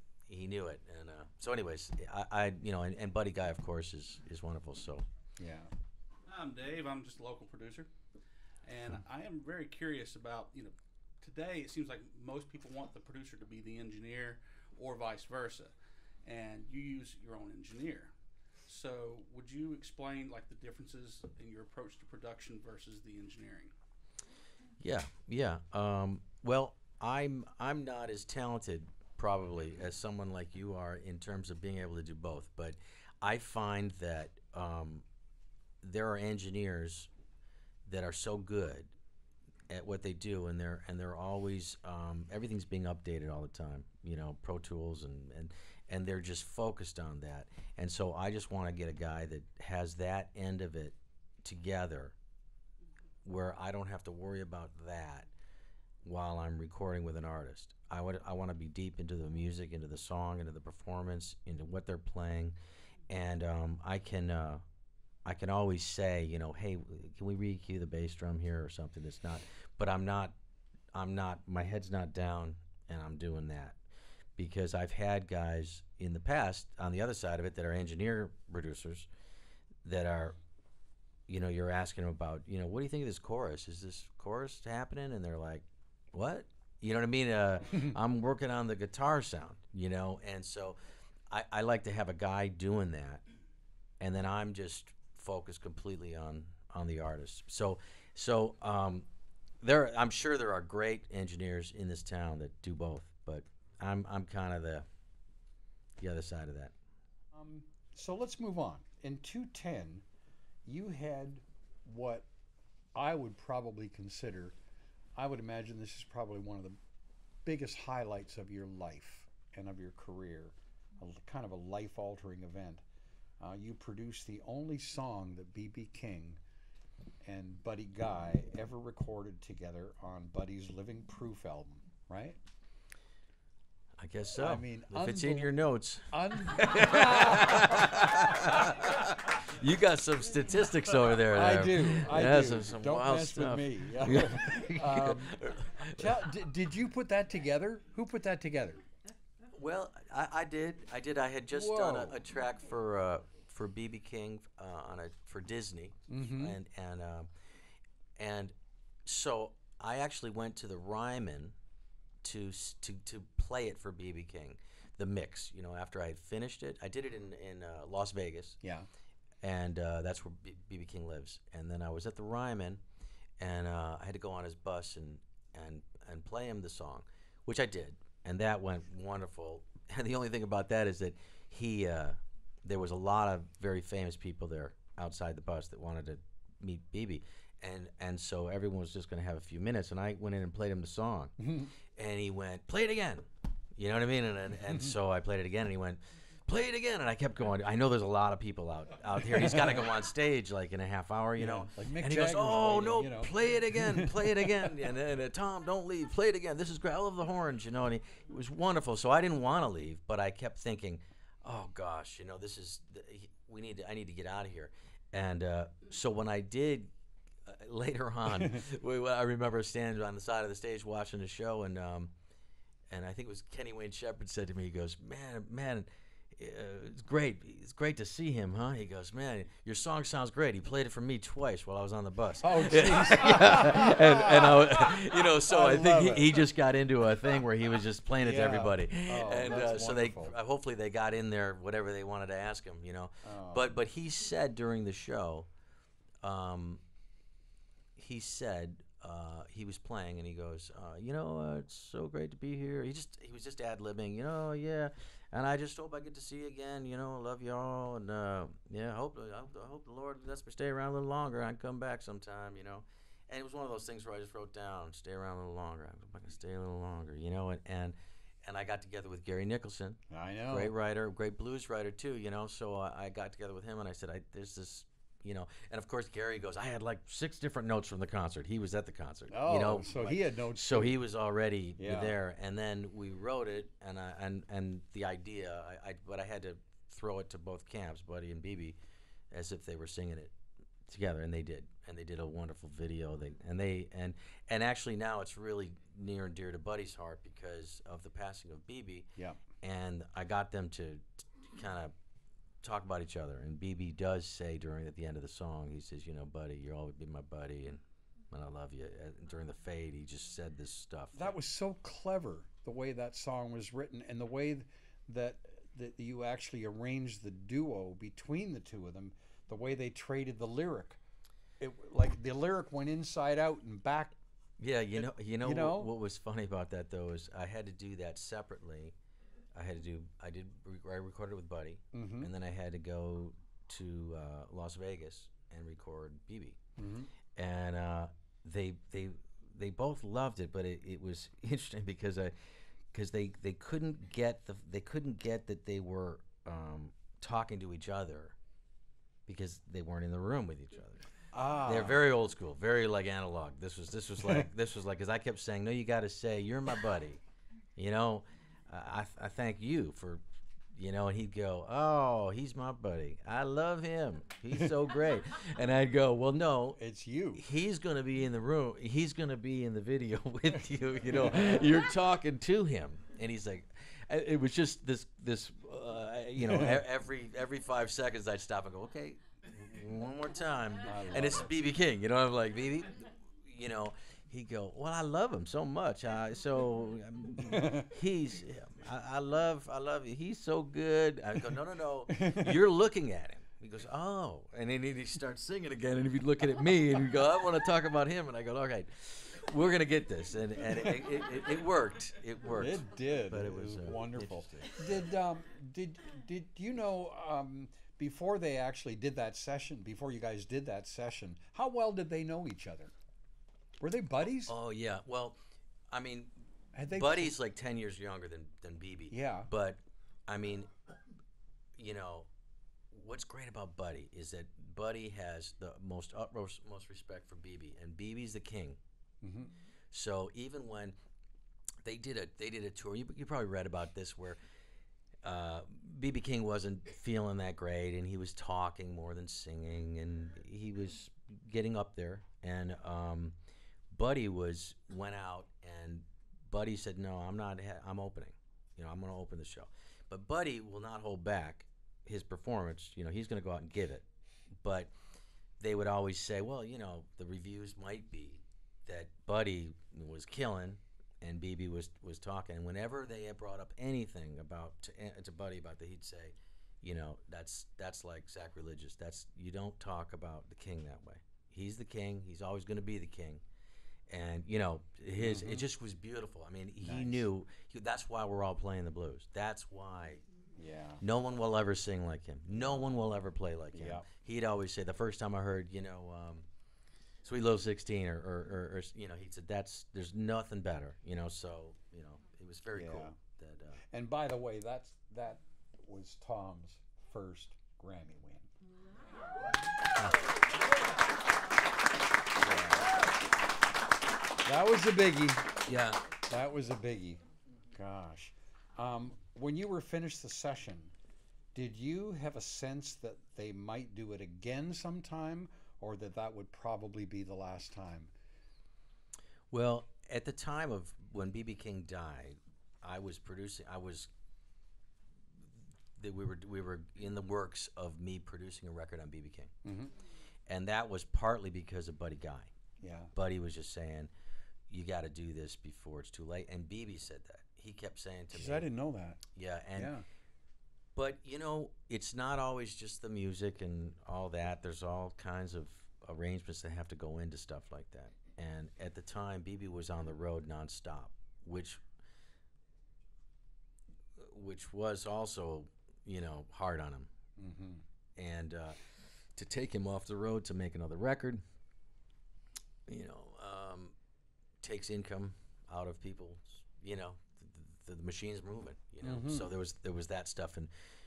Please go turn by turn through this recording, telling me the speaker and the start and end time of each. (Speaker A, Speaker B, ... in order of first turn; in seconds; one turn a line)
Speaker A: 0.3-5.0
Speaker B: 5.4-5.7
Speaker C: 6.3-7.9
Speaker C: 8.6-15.7
Speaker C: 16.2-18.1
Speaker C: 18.7-23.7
Speaker A: 24.8-35.0
Speaker A: 35.8-37.1
Speaker A: 37.9-38.9
Speaker A: 39.7-52.1
Speaker A: 53.2-55.3
Speaker A: 56.0-62.6
Speaker A: 63.1-64.6
Speaker A: 65.2-70.3
Speaker A: 70.9-73.8
Speaker A: 74.4-79.1
Speaker A: 79.8-80.4
Speaker A: 81.3-90.8
Speaker A: 91.3-93.2
Speaker A: 94.0-99.1
Speaker A: 99.6-104.9
Speaker A: 106.0-106.7
Speaker B: 107.3-110.0
Speaker B: 110.7-112.3
Speaker B: 113.0-114.5
Speaker B: 115.2-116.8
Speaker B: 117.5-122.8
Speaker B: 123.4-126.4
Speaker B: 127.2-132.4
Speaker A: 134.0-146.2
Speaker B: 134.4-135.6
Speaker B: 136.1-138.7
Speaker B: 141.3-148.8
Speaker A: 149.5-157.3
Speaker B: 151.5-152.2
Speaker B: 156.1-156.6
Speaker A: 158.2-158.5
Speaker A: 159.1-161.6
Speaker A: 162.2-168.6
Speaker B: 168.6-168.9
Speaker A: 169.4-172.8
Speaker A: 173.4-216.9
Speaker B: 191.4-191.7
Speaker B: 199.3-199.7
Speaker B: 201.4-204.4
Speaker A: 217.4-222.1
Speaker A: 222.9-245.5
Speaker B: 232.4-236.5
Speaker B: 238.2-240.3
Speaker B: 243.2-243.7
Speaker A: 246.2-246.8
Speaker A: 248.0-288.8
Speaker B: 270.1-270.7
Speaker B: 279.3-281.0
Speaker B: 281.8-282.2
Speaker A: 289.3-290.3
Speaker A: 290.9-299.1
Speaker A: 299.6-301.9
Speaker A: 302.6-311.4
Speaker B: 311.1-321.0
Speaker B: 321.6-324.2
Speaker A: 324.6-328.9
Speaker B: 325.4-325.9
Speaker A: 329.5-336.6
Speaker B: 331.9-332.3
Speaker B: 336.8-337.1
Speaker A: 337.4-342.3
Speaker A: 342.9-348.4
Speaker A: 349.3-351.1
Speaker B: 351.3-352.0
Speaker A: 351.6-357.2
Speaker A: 357.8-360.2
Speaker A: 360.7-366.8
Speaker B: 366.8-367.5
Speaker A: 367.4-404.9
Speaker B: 371.1-371.6
Speaker B: 376.4-376.8
Speaker B: 380.8-381.5
Speaker B: 387.4-387.9
Speaker B: 392.1-392.6
Speaker B: 400.7-401.0
Speaker B: 402.6-412.9
Speaker B: 413.8-414.5
Speaker A: 414.5-415.4
Speaker A: 415.9-416.3
Speaker B: 416.7-417.4
Speaker A: 416.9-420.7
Speaker B: 419.1-419.5
Speaker A: 421.8-422.3
Speaker A: 422.9-428.8
Speaker B: 429.2-429.5
Speaker A: 429.9-431.0
Speaker A: 431.8-434.4
Speaker A: 435.2-443.4
Speaker A: 443.9-454.1
Speaker A: 454.6-454.9
Speaker A: 455.6-473.4
Speaker A: 474.1-480.2
Speaker B: 475.2-475.7
Speaker B: 476.8-477.3
Speaker B: 480.6-481.0
Speaker A: 481.0-486.5
Speaker B: 483.7-484.1
Speaker A: 487.2-493.8
Speaker B: 492.7-493.2
Speaker B: 493.9-498.5
Speaker B: 502.4-503.0
Speaker B: 504.4-505.6
Speaker A: 505.7-506.0
Speaker B: 506.3-507.2
Speaker B: 507.7-510.9
Speaker B: 511.6-518.1
Speaker A: 519.5-524.1
Speaker A: 526.0-529.5
Speaker B: 529.6-529.9
Speaker A: 530.5-532.5
Speaker B: 532.8-533.1
Speaker A: 533.1-534.1
Speaker A: 534.7-538.7
Speaker B: 538.3-539.2
Speaker A: 539.4-539.9
Speaker B: 539.8-540.0
Speaker A: 541.0-551.8
Speaker A: 554.2-557.1
Speaker B: 557.4-557.8
Speaker A: 558.2-558.8
Speaker A: 559.4-561.4
Speaker A: 562.9-563.9
Speaker A: 564.6-570.7
Speaker B: 569.0-569.5